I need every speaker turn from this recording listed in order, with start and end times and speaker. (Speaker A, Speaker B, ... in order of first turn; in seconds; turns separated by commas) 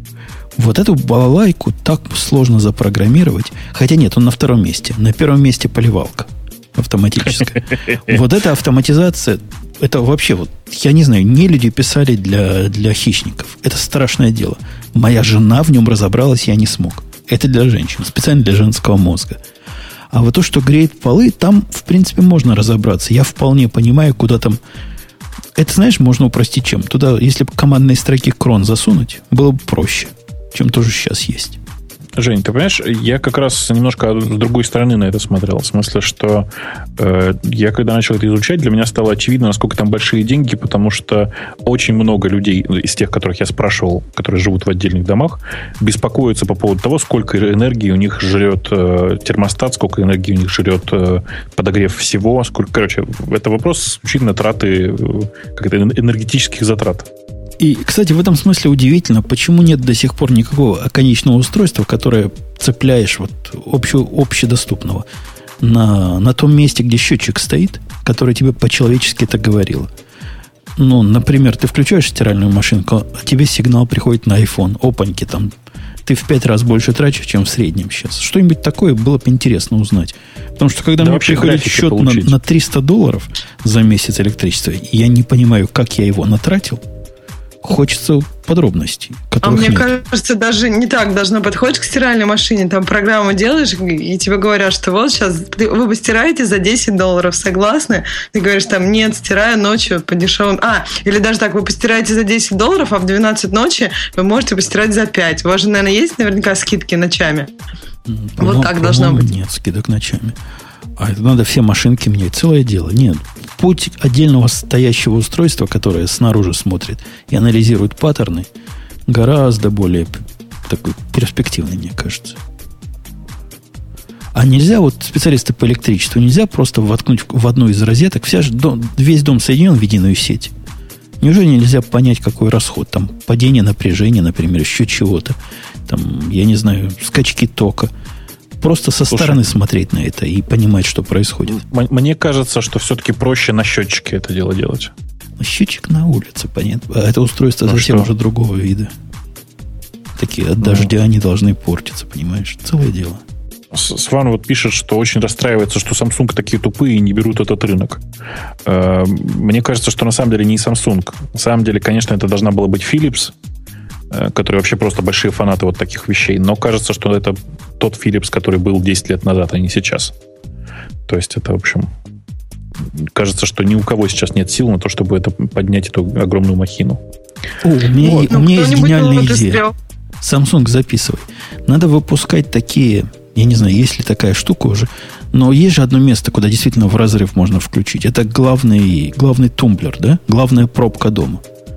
Speaker A: 0.6-19.4, Speaker A: 20.1-24.6, Speaker A: 25.6-31.6, Speaker B: 32.1-57.1, Speaker A: 57.6-65.0, Speaker A: 65.6-69.9, Speaker A: 70.8-75.5, Speaker A: 76.0-86.8, Speaker B: 81.0-82.4, Speaker A: 87.6-89.9, Speaker C: 89.4-107.5, Speaker A: 108.0-110.3, Speaker C: 108.4-109.3, Speaker A: 111.0-118.5, Speaker A: 119.1-122.4, Speaker A: 124.3-130.5, Speaker A: 131.2-135.3, Speaker A: 135.9-137.9, Speaker A: 138.6-141.6, Speaker B: 139.1-139.4, Speaker B: 141.5-144.9, Speaker A: 145.4-148.9, Speaker B: 147.7-148.1, Speaker A: 150.2-153.2, Speaker B: 150.6-150.9, Speaker B: 153.7-158.0, Speaker B: 158.6-163.3, Speaker B: 164.1-170.1, Speaker B: 171.1-171.9, Speaker B: 172.9-177.0, Speaker A: 177.6-179.6, Speaker C: 178.0-179.7, Speaker A: 180.2-191.4